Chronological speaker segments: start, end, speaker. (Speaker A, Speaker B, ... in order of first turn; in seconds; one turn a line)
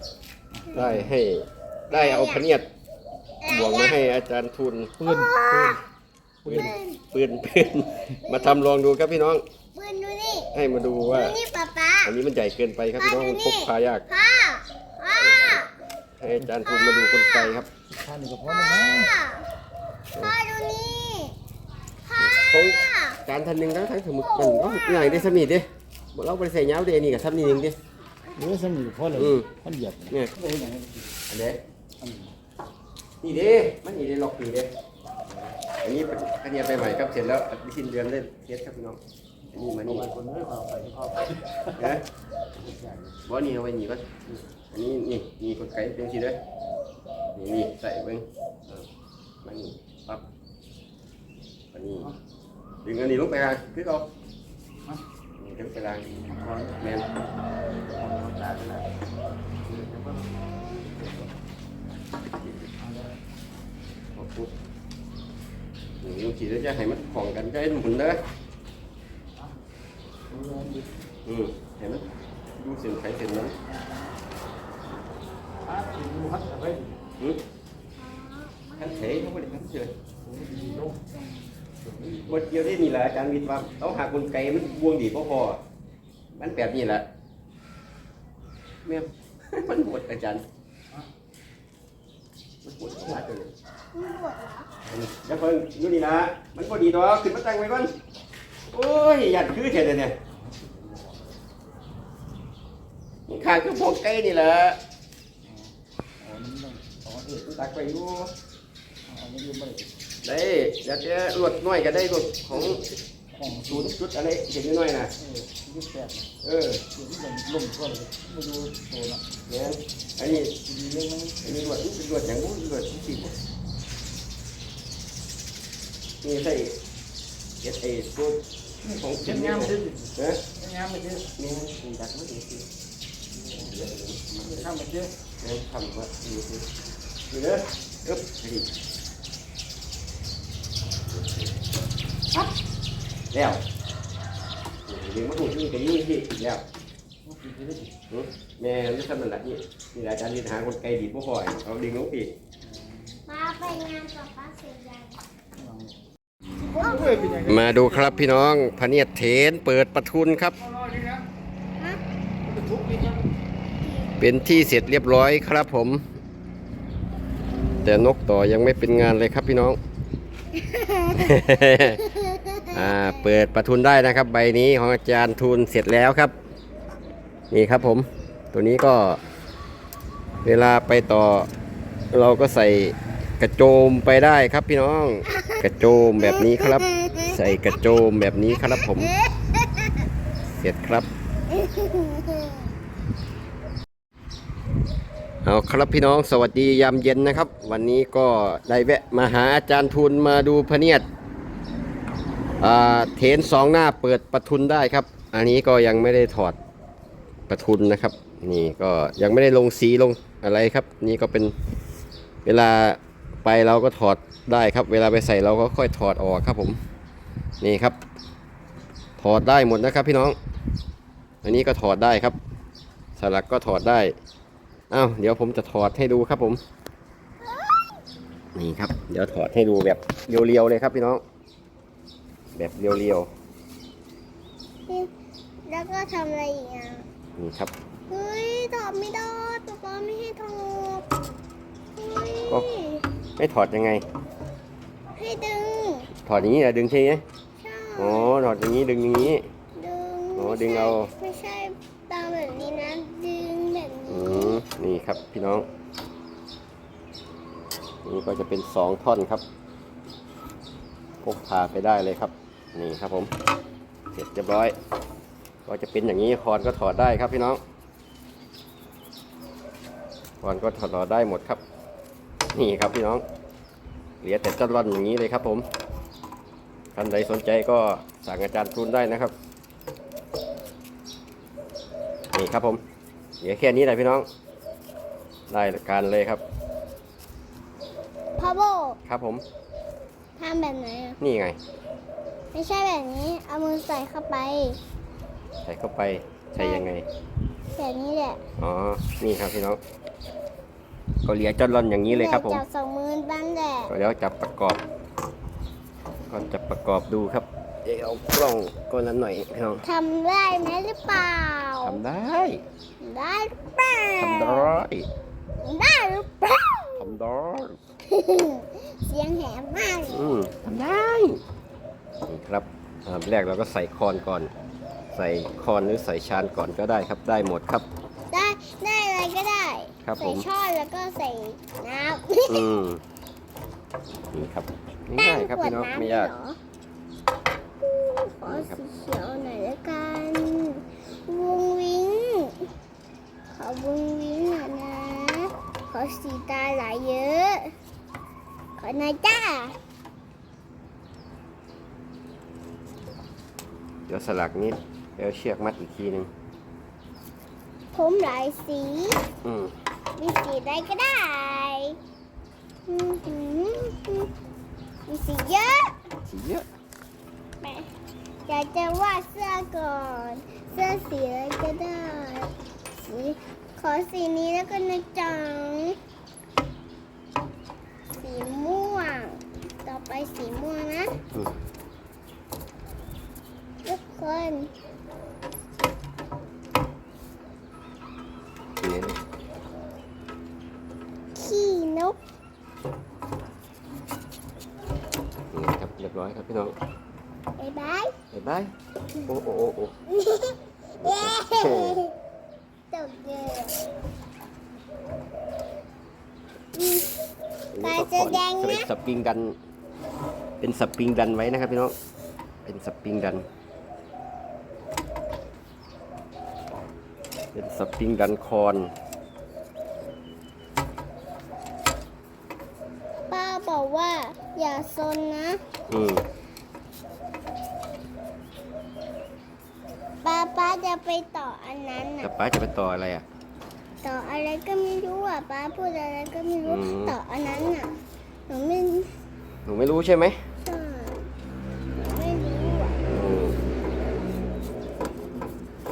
Speaker A: 0.7-2.6
Speaker B: 1.9-2.4
Speaker B: 3.4-4.0
Speaker A: 3.5-5.0
Speaker B: 5.0-5.8
Speaker C: 5.0-5.8
Speaker A: 6.4-9.4
Speaker B: 6.5-7.0
Speaker B: 8.2-8.6
Speaker B: 9.7-10.5
Speaker A: 10.5-11.3
Speaker B: 11.0-12.2
Speaker A: 12.0-14.0
Speaker B: 13.0-15.7
Speaker A: 15.2-15.6
Speaker A: 16.2-17.7
Speaker B: 16.6-17.6
Speaker C: 17.9-19.1
Speaker B: 18.6-19.5
Speaker B: 20.1-21.4
Speaker B: 22.0-23.2
Speaker A: 22.2-27.8
Speaker B: 24.1-25.4
Speaker B: 28.3-28.6
Speaker C: 28.4-31.0
Speaker A: 29.1-29.5
Speaker A: 30.1-30.4
Speaker A: 31.3-31.6
Speaker C: 32.0-32.3
Speaker A: 33.2-34.7
Speaker A: 35.8-39.0
Speaker A: 39.5-40.1
Speaker C: 39.9-41.6
Speaker A: 41.7-42.0
Speaker A: 43.2-46.4
Speaker A: 47.3-48.8
Speaker A: 49.4-50.2
Speaker A: 51.7-52.1
Speaker A: 52.8-54.1
Speaker A: 55.4-56.0
Speaker C: 56.3-56.8
Speaker A: 56.7-57.1
Speaker C: 57.9-58.9
Speaker C: 59.6-61.3
Speaker A: 62.3-62.7
Speaker C: 62.8-63.1
Speaker A: 64.1-64.5
Speaker A: 66.0-68.2
Speaker C: 70.3-70.8
Speaker A: 71.2-72.0
Speaker A: 72.6-73.5
Speaker C: 75.6-77.0
Speaker B: 78.0-79.4
Speaker A: 78.8-79.9
Speaker C: 80.2-81.0
Speaker B: 80.4-81.2
Speaker C: 81.8-82.2
Speaker A: 82.2-85.6
Speaker A: 86.3-87.1
Speaker A: 88.8-90.4
Speaker A: 92.6-93.5
Speaker B: 93.9-94.7
Speaker A: 94.8-97.9
Speaker A: 98.7-100.2
Speaker A: 103.3-104.8
Speaker C: 106.2-107.4
Speaker A: 107.3-108.3
Speaker C: 109.1-109.9
Speaker A: 110.2-112.9
Speaker C: 113.3-113.9
Speaker A: 113.5-115.1
Speaker C: 115.2-116.3
Speaker A: 116.4-116.8
Speaker C: 116.9-119.2
Speaker A: 119.5-120.6
Speaker C: 120.6-121.4
Speaker A: 121.4-123.3
Speaker A: 126.2-126.8
Speaker A: 127.6-130.5
Speaker C: 129.2-130.0
Speaker C: 130.6-131.3
Speaker A: 131.3-132.7
Speaker A: 133.4-134.7
Speaker C: 134.4-135.1
Speaker A: 135.4-136.7
Speaker A: 137.3-138.7
Speaker A: 141.1-141.5
Speaker A: 143.3-143.6
Speaker A: 144.9-146.6
Speaker C: 147.2-147.9
Speaker A: 148.1-152.3
Speaker B: 153.2-155.2
Speaker C: 155.6-155.9
Speaker C: 156.6-157.8
Speaker B: 156.6-157.6
Speaker A: 157.4-160.6
Speaker C: 160.8-161.2
Speaker B: 161.7-162.0
Speaker C: 162.4-163.2
Speaker B: 163.8-164.2
Speaker A: 164.2-166.0
Speaker A: 167.8-169.8
Speaker B: 170.5-173.1
Speaker A: 171.1-172.1
Speaker A: 172.7-176.3
Speaker A: 177.5-179.2
Speaker A: 180.4-181.5
Speaker A: 182.1-189.1
Speaker B: 185.2-187.8
Speaker B: 188.5-190.1
Speaker A: 190.6-191.1
Speaker B: 191.5-192.7
Speaker A: 195.4-201.1
Speaker A: 202.6-206.6
Speaker A: 207.5-211.5
Speaker A: 212.4-216.8
Speaker A: 217.6-218.0
Speaker A: 219.2-220.3
Speaker A: 221.4-222.4
Speaker A: 223.2-224.1
Speaker A: 224.9-226.6
Speaker B: 227.4-228.0
Speaker A: 228.5-231.2
Speaker A: 232.5-233.3
Speaker B: 235.7-237.1
Speaker A: 237.4-237.7
Speaker B: 238.1-241.1
Speaker B: 241.9-243.1
Speaker A: 243.4-244.0
Speaker B: 245.1-246.1
Speaker A: 246.2-247.2
Speaker B: 247.6-248.3
Speaker A: 248.0-249.4
Speaker B: 249.7-254.6
Speaker A: 250.3-251.1
Speaker A: 254.1-255.7
Speaker A: 258.0-259.4
Speaker A: 261.2-263.3
Speaker A: 264.1-264.7
Speaker A: 265.6-267.6
Speaker A: 270.4-271.6
Speaker A: 272.5-273.2
Speaker A: 274.2-275.7
Speaker A: 276.9-279.3
Speaker A: 282.3-282.8
Speaker A: 283.4-284.3
Speaker A: 285.5-286.4
Speaker B: 288.4-289.0
Speaker A: 289.0-289.4
Speaker B: 290.4-291.2
Speaker A: 291.2-291.6
Speaker B: 292.5-294.8
Speaker A: 295.6-297.0
Speaker B: 296.6-296.9
Speaker B: 297.7-298.4
Speaker A: 298.6-299.8
Speaker A: 301.2-302.6
Speaker B: 302.1-303.9
Speaker A: 303.9-304.8
Speaker A: 306.3-309.8
Speaker B: 309.8-312.0
Speaker A: 311.8-312.6
Speaker B: 313.0-314.7
Speaker A: 314.2-315.1
Speaker B: 315.6-317.2
Speaker A: 317.0-317.8
Speaker B: 318.0-320.3
Speaker A: 320.1-321.4
Speaker A: 322.3-324.5
Speaker A: 325.1-327.9
Speaker B: 328.3-332.7
Speaker A: 330.0-330.4
Speaker A: 332.5-333.0
Speaker A: 334.3-336.3
Speaker B: 335.1-336.6
Speaker B: 337.8-342.7
Speaker A: 338.4-338.8
Speaker B: 343.5-347.7
Speaker B: 348.8-349.8
Speaker A: 354.1-356.3
Speaker B: 357.9-359.2
Speaker A: 359.4-359.7
Speaker B: 360.2-362.0
Speaker B: 362.9-364.3
Speaker B: 365.1-365.9
Speaker A: 366.2-366.7
Speaker B: 367.6-367.9
Speaker B: 368.4-376.0
Speaker B: 378.1-381.2
Speaker B: 383.8-384.7
Speaker A: 388.8-389.2
Speaker B: 391.3-392.2
Speaker A: 395.5-396.8
Speaker B: 397.6-398.1
Speaker A: 398.3-398.7
Speaker A: 399.2-399.9
Speaker B: 400.1-402.1
Speaker A: 401.0-402.0
Speaker B: 402.9-403.9
Speaker B: 406.7-407.3
Speaker A: 407.7-409.6
Speaker B: 407.8-408.9
Speaker A: 410.6-411.9
Speaker A: 412.6-413.4
Speaker A: 417.5-418.9
Speaker B: 423.3-425.6
Speaker A: 425.9-426.2
Speaker B: 430.2-432.3
Speaker A: 432.2-433.2
Speaker B: 434.0-437.9
Speaker A: 436.6-437.1
Speaker B: 438.5-439.2
Speaker A: 439.6-440.4
Speaker B: 440.6-441.3
Speaker B: 441.9-443.1
Speaker A: 443.0-443.6